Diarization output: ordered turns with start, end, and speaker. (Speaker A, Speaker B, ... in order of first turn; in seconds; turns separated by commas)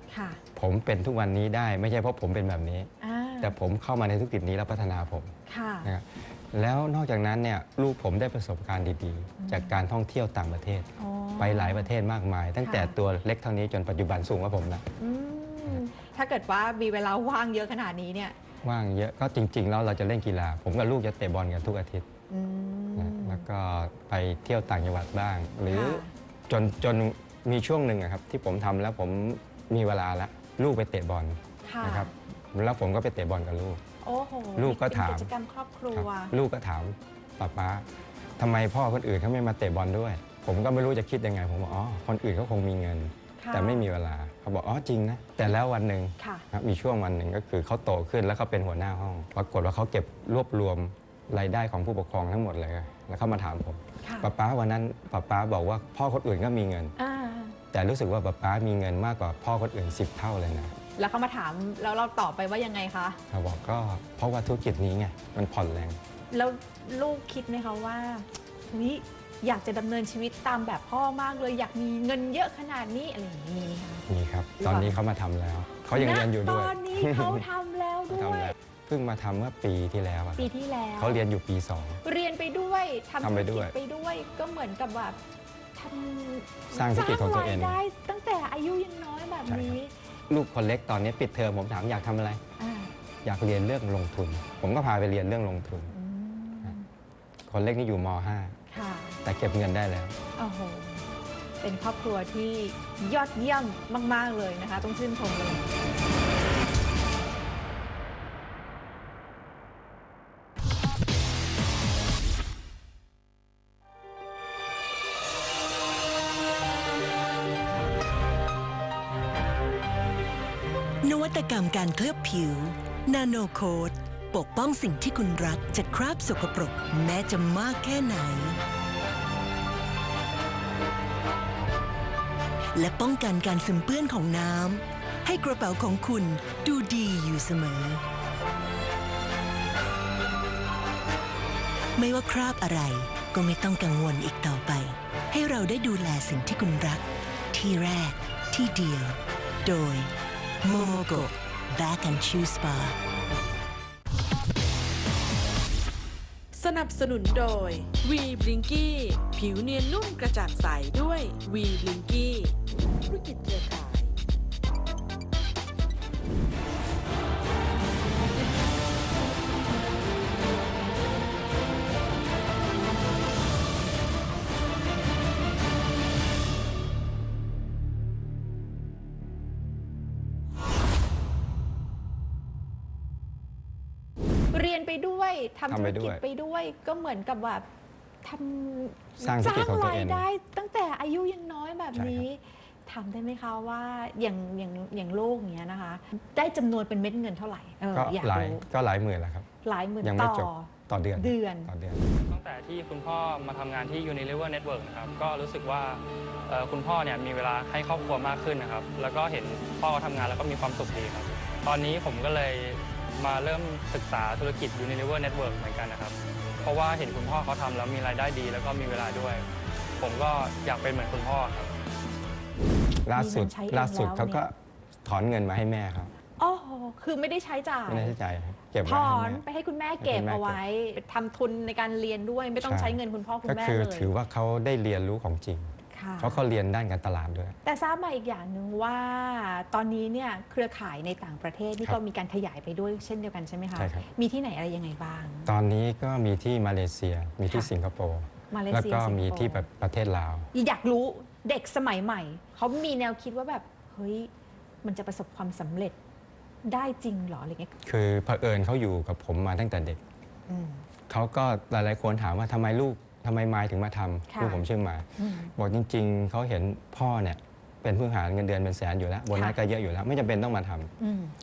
Speaker A: 0.1-0.4, Speaker B: 0.6-5.3, Speaker A: 3.0-3.5, Speaker A: 5.5-5.9, Speaker B: 5.8-14.9, Speaker A: 9.4-9.8, Speaker A: 11.0-11.9, Speaker A: 12.6-12.9, Speaker A: 15.0-18.4, Speaker B: 18.6-22.1, Speaker A: 22.3-23.4, Speaker B: 23.0-33.8, Speaker A: 25.7-26.1, Speaker A: 31.7-32.1, Speaker A: 34.0-36.3, Speaker B: 34.6-35.3, Speaker B: 35.9-37.9, Speaker B: 38.4-57.0, Speaker A: 43.4-43.9, Speaker A: 46.2-46.5, Speaker A: 54.0-54.3, Speaker A: 57.0-57.6, Speaker B: 57.7-60.8, Speaker A: 61.0-63.2, Speaker B: 63.3-66.0, Speaker A: 66.3-74.0, Speaker B: 74.1-77.5, Speaker A: 74.6-75.0, Speaker A: 75.9-78.5, Speaker B: 78.1-82.0, Speaker A: 80.4-81.2, Speaker A: 82.0-85.2, Speaker B: 83.2-83.8, Speaker A: 85.8-89.9, Speaker B: 86.7-87.8, Speaker B: 89.5-89.8, Speaker B: 90.3-92.4, Speaker A: 92.6-92.9, Speaker B: 93.2-95.9, Speaker A: 95.9-96.9, Speaker B: 97.5-98.6, Speaker A: 98.7-99.2, Speaker B: 99.2-100.2, Speaker A: 100.4-101.1, Speaker A: 101.6-105.7, Speaker C: 121.0-128.6, Speaker C: 132.8-138.0, Speaker C: 142.0-150.1, Speaker C: 150.6-153.0, Speaker D: 150.7-151.2, Speaker D: 156.5-162.5, Speaker D: 163.1-164.1, Speaker A: 184.5-187.7, Speaker B: 185.7-186.2, Speaker A: 188.2-198.6, Speaker B: 189.2-190.3, Speaker B: 191.9-192.2, Speaker B: 197.9-199.5, Speaker A: 199.6-201.7, Speaker B: 200.0-202.1, Speaker E: 202.2-219.5, Speaker E: 220.0-221.7, Speaker B: 223.1-226.1, Speaker A: 223.1-224.4, Speaker A: 226.4-228.2, Speaker B: 227.9-229.4, Speaker A: 228.8-234.1, Speaker B: 230.0-230.6, Speaker B: 232.6-237.6, Speaker A: 235.9-236.4, Speaker A: 237.7-245.5, Speaker B: 243.8-244.1, Speaker B: 245.5-250.5, Speaker A: 248.5-249.7, Speaker A: 250.5-254.3, Speaker A: 254.8-256.0, Speaker A: 256.6-257.7, Speaker B: 257.8-260.0, Speaker A: 260.5-260.8, Speaker B: 261.1-270.9, Speaker A: 264.3-264.6, Speaker A: 265.2-265.5, Speaker A: 271.0-271.3